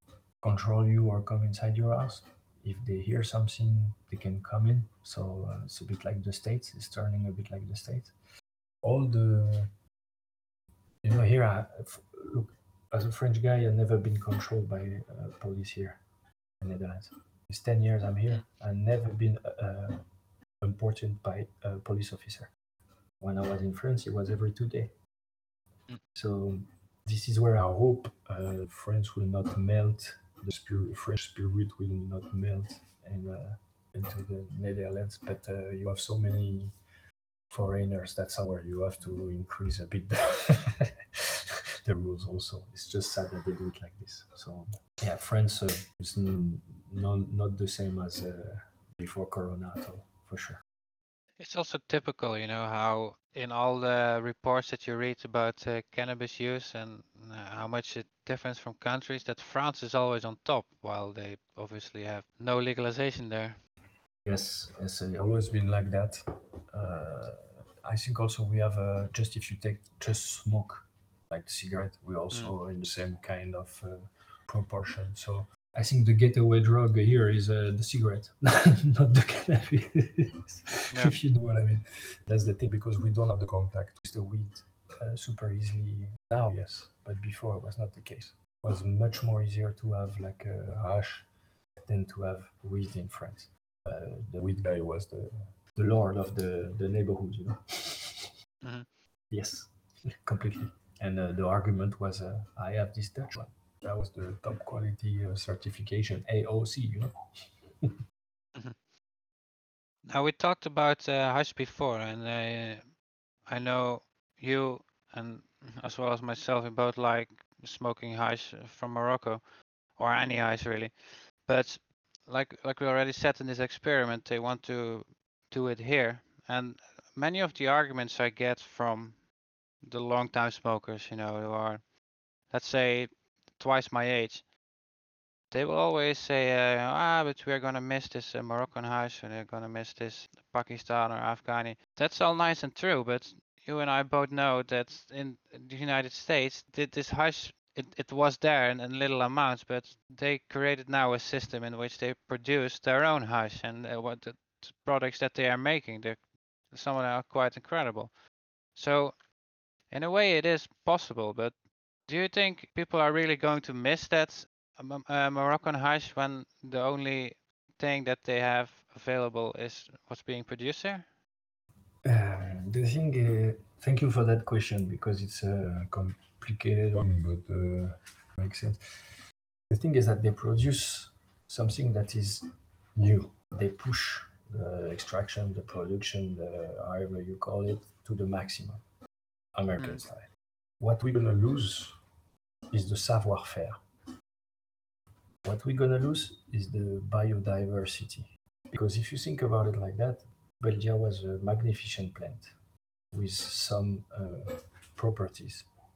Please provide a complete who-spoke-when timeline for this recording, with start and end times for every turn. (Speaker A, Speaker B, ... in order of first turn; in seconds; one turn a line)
Speaker A: 0.4-8.1
Speaker A: 8.8-9.7
Speaker A: 11.0-16.0
Speaker A: 16.6-20.0
Speaker A: 20.6-22.5
Speaker A: 23.2-24.9
Speaker A: 26.1-36.7
Speaker A: 37.5-50.6
Speaker B: 51.4-63.6
Speaker A: 64.2-91.3
Speaker B: 80.9-81.2
Speaker A: 91.9-98.3
Speaker B: 98.6-98.9
Speaker A: 99.3-107.2
Speaker B: 110.0-119.4
Speaker B: 120.0-129.3
Speaker B: 129.8-131.9
Speaker B: 132.5-134.5
Speaker B: 135.5-158.2
Speaker B: 158.7-159.3
Speaker B: 159.9-171.1
Speaker A: 172.0-179.2
Speaker A: 179.7-188.8
Speaker A: 189.6-192.0
Speaker B: 189.8-190.0
Speaker A: 192.7-193.8
Speaker A: 195.4-202.5
Speaker A: 203.1-205.7